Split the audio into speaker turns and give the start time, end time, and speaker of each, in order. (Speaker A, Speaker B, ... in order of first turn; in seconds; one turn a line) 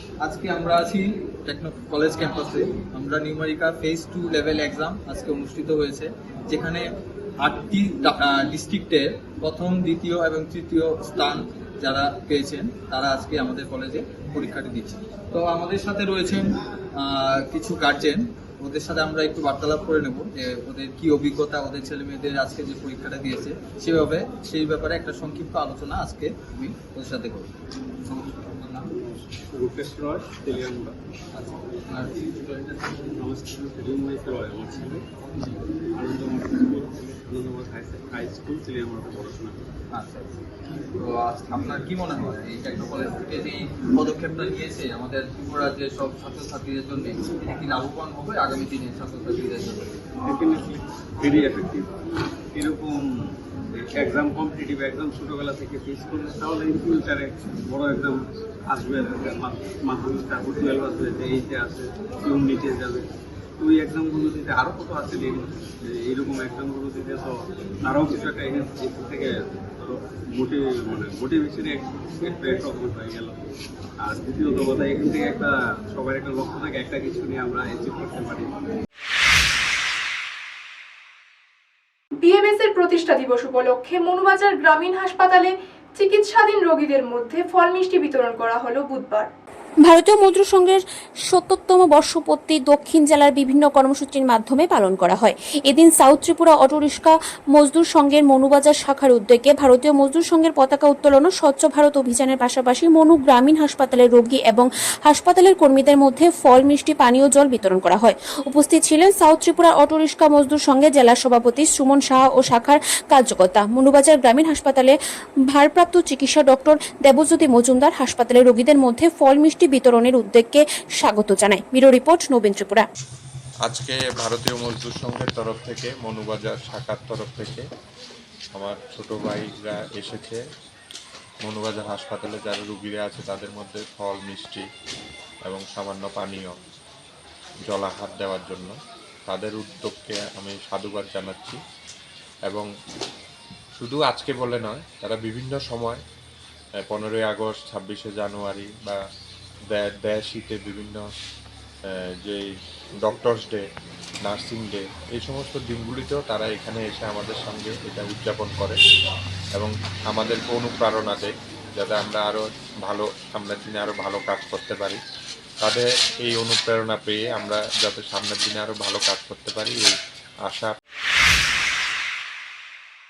Speaker A: 0.2-6.9
Speaker A: 7.4-27.5
Speaker A: 28.1-28.9
Speaker B: 28.9-30.9
Speaker A: 31.3-33.1
Speaker B: 33.1-35.0
Speaker B: 36.0-39.6
Speaker A: 39.9-40.3
Speaker A: 41.0-50.0
Speaker B: 50.2-51.9
Speaker B: 52.5-53.0
Speaker B: 53.8-58.2
Speaker B: 58.7-63.0
Speaker B: 63.6-73.4
Speaker B: 74.0-78.5
Speaker C: 82.2-89.3
Speaker D: 89.8-115.0
Speaker D: 115.5-122.9
Speaker E: 123.7-127.6
Speaker E: 128.5-130.4
Speaker E: 131.4-134.7
Speaker E: 135.5-136.6
Speaker E: 137.7-138.8
Speaker E: 139.3-141.6
Speaker E: 143.8-146.0
Speaker E: 146.9-149.0
Speaker E: 149.7-151.0
Speaker E: 153.0-153.6
Speaker E: 154.2-158.8
Speaker E: 159.6-165.0
Speaker E: 165.6-170.7